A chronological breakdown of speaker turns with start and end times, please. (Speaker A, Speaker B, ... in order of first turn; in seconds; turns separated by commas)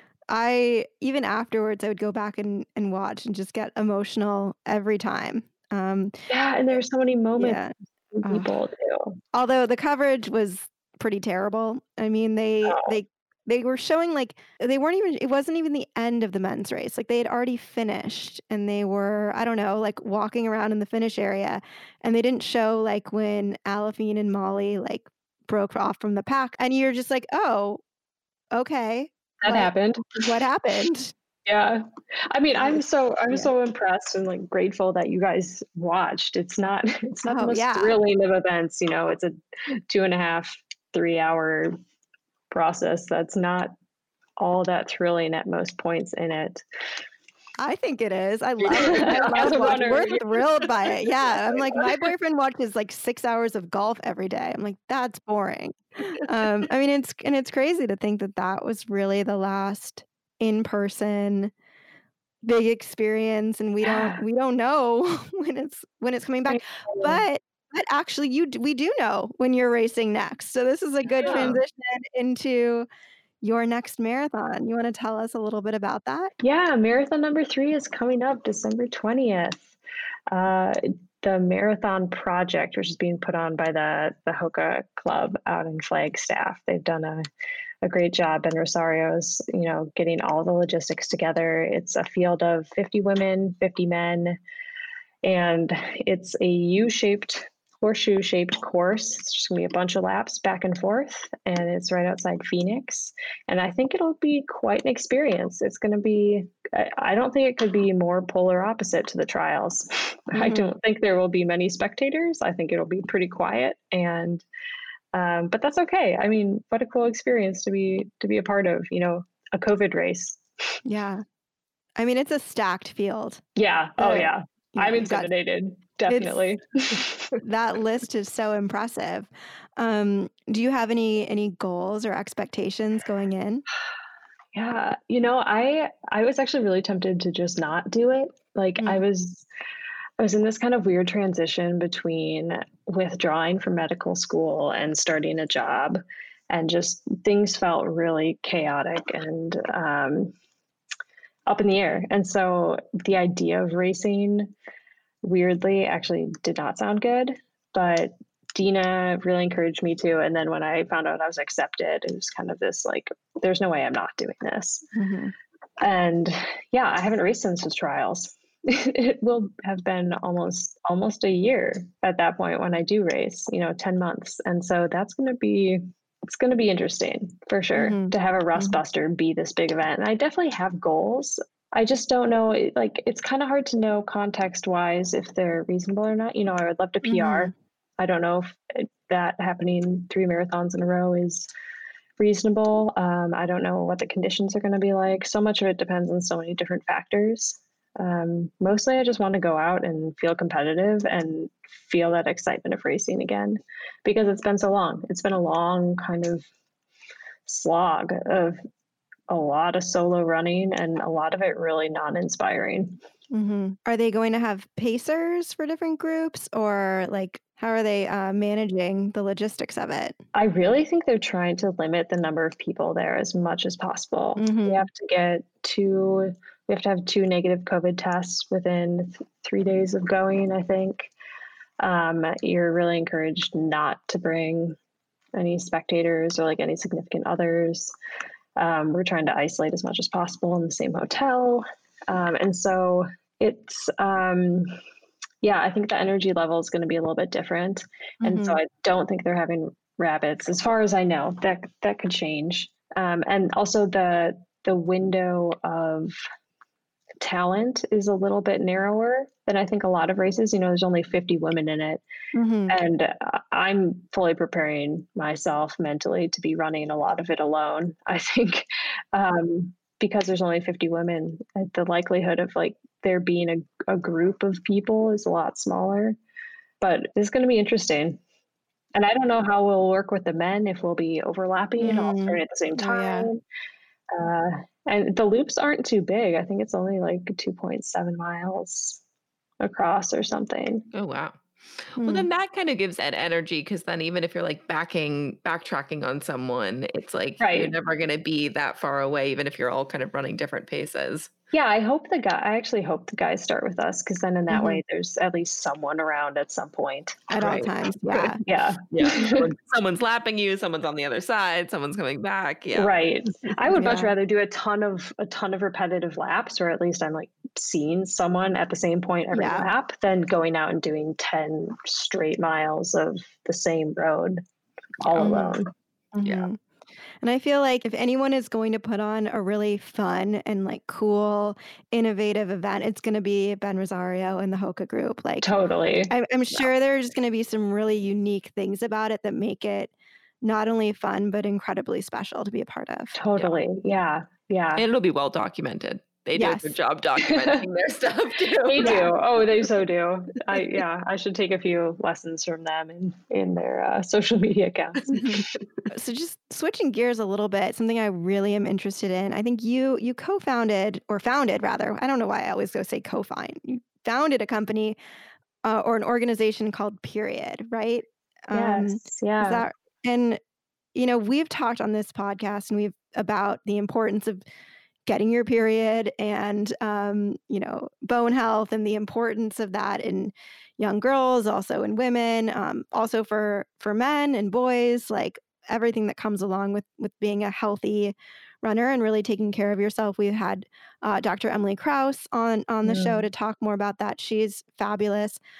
Speaker A: 0.3-6.2, Speaker B: 6.3-7.6, Speaker A: 7.4-8.5, Speaker B: 8.1-9.2, Speaker A: 9.3-27.8, Speaker B: 12.6-12.9, Speaker A: 28.5-31.1, Speaker B: 29.4-30.2, Speaker B: 31.4-41.8, Speaker A: 37.2-38.0, Speaker B: 42.5-43.7, Speaker B: 44.4-46.6, Speaker A: 47.6-61.5, Speaker B: 48.7-51.9, Speaker C: 48.8-49.5, Speaker A: 62.4-72.9, Speaker B: 63.8-64.2, Speaker B: 66.5-67.2, Speaker B: 71.2-71.6, Speaker A: 73.4-76.3, Speaker B: 76.4-79.7, Speaker B: 80.3-87.2, Speaker B: 87.8-94.4, Speaker B: 95.2-114.4, Speaker A: 110.3-110.7, Speaker B: 115.1-120.4, Speaker A: 120.8-121.2, Speaker A: 122.0-123.4, Speaker B: 123.5-127.4, Speaker A: 124.0-125.3, Speaker A: 126.1-126.5, Speaker A: 127.4-133.6, Speaker B: 134.5-139.4, Speaker B: 140.2-150.3, Speaker B: 151.5-154.5, Speaker B: 155.2-164.9, Speaker A: 164.9-165.3, Speaker B: 165.8-191.5, Speaker A: 177.8-178.8, Speaker A: 187.0-187.5, Speaker B: 192.2-206.4, Speaker B: 207.4-208.6, Speaker B: 209.3-213.0, Speaker A: 213.3-220.2, Speaker B: 220.3-231.1, Speaker A: 224.4-224.8, Speaker B: 231.8-234.8, Speaker B: 235.3-237.9, Speaker B: 238.6-244.7, Speaker B: 245.4-256.2, Speaker A: 248.2-248.6, Speaker B: 257.2-262.0, Speaker A: 262.3-262.8, Speaker B: 262.7-276.2, Speaker B: 276.8-278.2, Speaker B: 278.9-283.4, Speaker A: 281.8-283.3, Speaker B: 284.1-289.0, Speaker B: 289.6-290.9, Speaker C: 290.9-291.4, Speaker C: 291.9-301.3, Speaker A: 292.0-292.3, Speaker B: 297.4-297.7, Speaker B: 301.5-307.6, Speaker A: 304.5-304.8, Speaker A: 307.3-308.4, Speaker C: 307.4-312.9, Speaker B: 308.4-309.5, Speaker B: 312.7-324.4, Speaker A: 313.7-314.1, Speaker A: 319.3-319.7, Speaker B: 325.0-325.7, Speaker A: 325.1-325.6, Speaker A: 326.1-326.6, Speaker A: 327.2-335.5, Speaker B: 335.4-336.1, Speaker A: 336.1-343.2, Speaker B: 343.1-344.8, Speaker C: 344.8-349.1, Speaker A: 346.4-346.7, Speaker B: 347.2-347.6, Speaker B: 348.6-355.2, Speaker A: 348.8-349.1, Speaker A: 355.1-365.0, Speaker A: 365.6-370.4, Speaker B: 368.5-369.6, Speaker A: 370.9-374.4, Speaker A: 375.1-395.4, Speaker B: 392.8-393.3